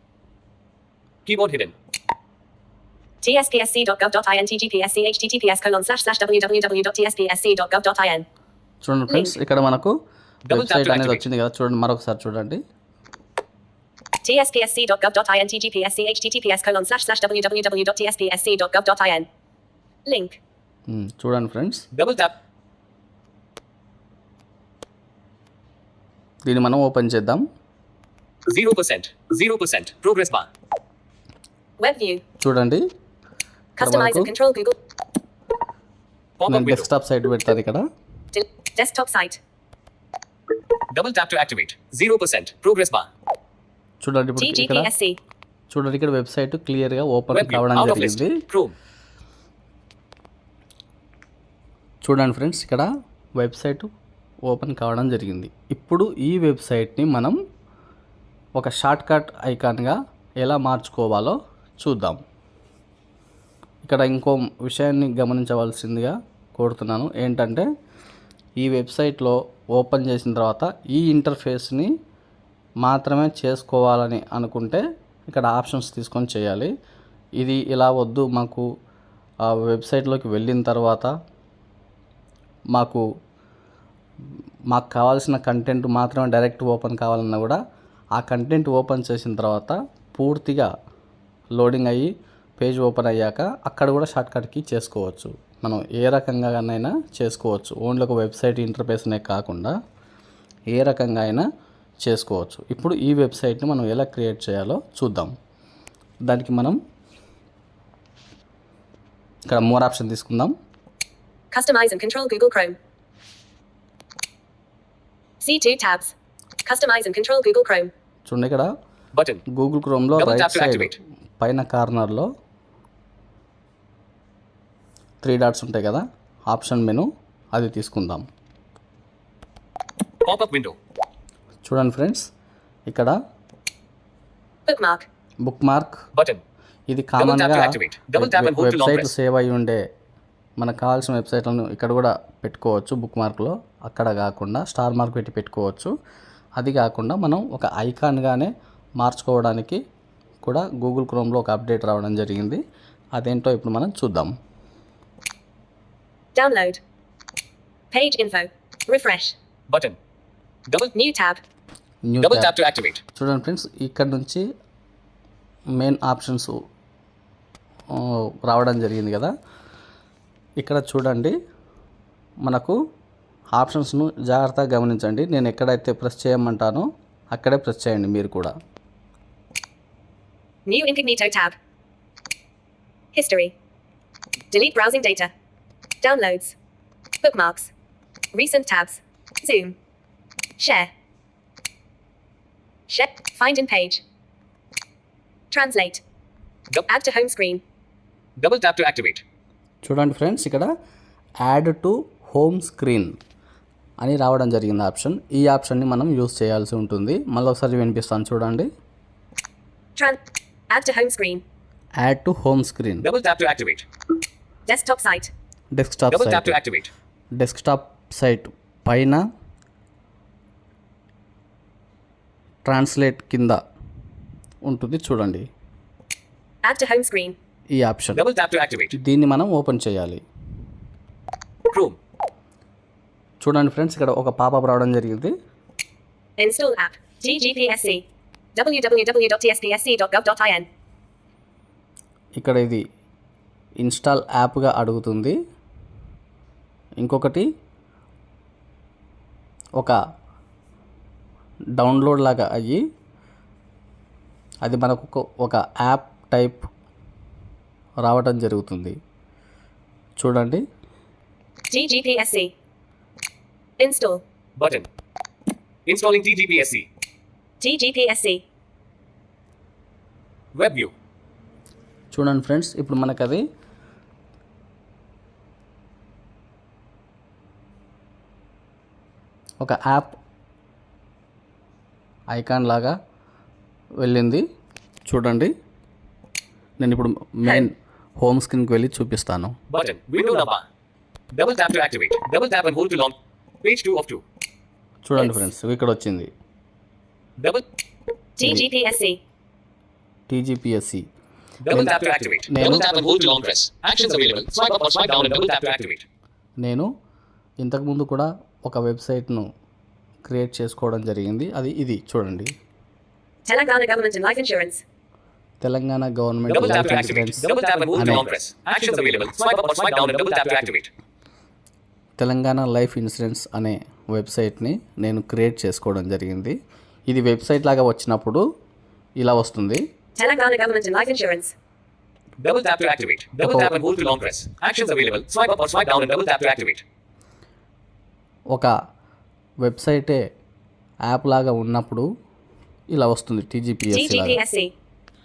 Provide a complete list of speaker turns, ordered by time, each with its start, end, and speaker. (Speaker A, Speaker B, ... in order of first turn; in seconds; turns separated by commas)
Speaker A: 1.2-1.7, Speaker B: 3.2-8.2, Speaker C: 8.8-9.9, Speaker A: 10.5-11.2, Speaker C: 10.5-12.6, Speaker B: 14.2-19.3, Speaker B: 20.1-20.4, Speaker C: 20.9-21.8, Speaker A: 21.9-22.3, Speaker C: 26.4-27.4, Speaker A: 28.5-30.5, Speaker B: 31.8-32.2, Speaker C: 32.4-32.8, Speaker B: 33.8-34.8, Speaker C: 33.8-34.3, Speaker A: 36.4-36.9, Speaker C: 36.5-37.8, Speaker B: 38.3-39.4, Speaker A: 40.9-43.0, Speaker C: 44.0-44.9, Speaker B: 44.4-45.2, Speaker C: 45.7-48.4, Speaker A: 47.3-48.7, Speaker C: 52.0-53.9, Speaker C: 54.5-57.4, Speaker C: 58.6-62.2, Speaker C: 63.8-67.7, Speaker C: 68.6-71.9, Speaker C: 72.8-76.7, Speaker C: 77.4-78.7, Speaker C: 79.5-81.1, Speaker C: 82.7-83.0, Speaker C: 84.7-87.6, Speaker C: 88.2-90.7, Speaker C: 91.6-99.7, Speaker C: 100.7-101.4, Speaker C: 102.0-105.3, Speaker C: 106.2-106.8, Speaker C: 109.5-110.5, Speaker B: 111.5-112.8, Speaker B: 115.4-116.1, Speaker B: 116.6-117.9, Speaker C: 118.3-118.7, Speaker A: 119.1-119.4, Speaker C: 119.5-122.3, Speaker A: 120.1-121.0, Speaker C: 125.2-128.2, Speaker A: 130.2-130.8, Speaker C: 131.6-132.3, Speaker C: 132.9-133.1, Speaker B: 134.7-135.1, Speaker C: 135.4-136.0, Speaker A: 136.1-136.4, Speaker C: 136.9-139.8, Speaker A: 137.2-139.1, Speaker C: 140.6-145.9, Speaker C: 146.6-149.8, Speaker C: 150.4-152.6, Speaker C: 153.2-154.3, Speaker B: 156.3-156.8, Speaker B: 157.9-159.3, Speaker A: 159.7-159.9, Speaker A: 160.7-160.9, Speaker B: 160.9-161.4, Speaker C: 162.1-162.5, Speaker A: 162.2-163.0, Speaker C: 163.1-164.4, Speaker C: 165.8-166.5, Speaker C: 167.9-169.3, Speaker C: 170.6-171.3, Speaker C: 172.4-172.8, Speaker C: 173.5-178.5, Speaker B: 180.7-181.6, Speaker B: 183.1-183.5, Speaker B: 184.5-185.3, Speaker B: 186.0-186.6, Speaker B: 187.2-187.7, Speaker B: 188.3-189.8, Speaker B: 190.6-190.9, Speaker B: 192.9-194.0, Speaker B: 195.5-196.0, Speaker B: 196.9-197.6, Speaker A: 198.4-199.2, Speaker C: 199.8-200.7, Speaker C: 201.4-203.1, Speaker C: 204.0-208.7, Speaker B: 209.9-211.4, Speaker C: 212.0-213.1, Speaker A: 213.0-213.8, Speaker B: 214.7-215.3, Speaker C: 215.7-216.6, Speaker A: 216.1-216.9, Speaker C: 217.4-219.2, Speaker C: 222.7-223.6, Speaker C: 224.6-225.5, Speaker B: 226.6-227.3, Speaker C: 227.7-228.2, Speaker A: 228.1-228.9, Speaker C: 228.9-230.2, Speaker A: 231.7-232.0, Speaker C: 233.4-235.3, Speaker B: 236.4-238.0, Speaker B: 238.5-240.7, Speaker C: 242.4-242.8, Speaker C: 243.8-245.3, Speaker C: 247.0-247.4, Speaker C: 251.8-252.8, Speaker C: 254.6-256.7, Speaker C: 258.0-258.9, Speaker C: 260.2-260.6, Speaker B: 261.7-262.5, Speaker B: 263.8-264.2, Speaker A: 264.6-264.9, Speaker A: 265.9-266.9, Speaker B: 267.6-268.4, Speaker A: 270.5-270.9, Speaker C: 272.1-273.4, Speaker C: 279.6-280.1, Speaker C: 282.3-282.9, Speaker C: 284.0-284.4, Speaker C: 285.1-285.5, Speaker C: 286.8-289.5, Speaker A: 289.7-290.6, Speaker A: 291.3-294.2, Speaker C: 295.0-296.3, Speaker B: 295.2-295.4, Speaker A: 297.4-297.6, Speaker B: 298.4-299.2, Speaker C: 300.3-301.0, Speaker A: 301.6-306.0, Speaker C: 302.5-302.9, Speaker C: 306.6-306.9, Speaker C: 307.6-309.4, Speaker C: 310.2-312.5, Speaker B: 313.4-314.8, Speaker C: 315.6-318.3, Speaker A: 316.4-320.9, Speaker C: 322.2-326.6, Speaker C: 327.1-328.4, Speaker C: 329.2-329.8, Speaker B: 330.1-331.5, Speaker A: 332.4-336.8, Speaker C: 333.4-333.8, Speaker C: 339.6-340.2, Speaker C: 341.1-342.1, Speaker C: 342.9-344.4, Speaker B: 343.9-344.7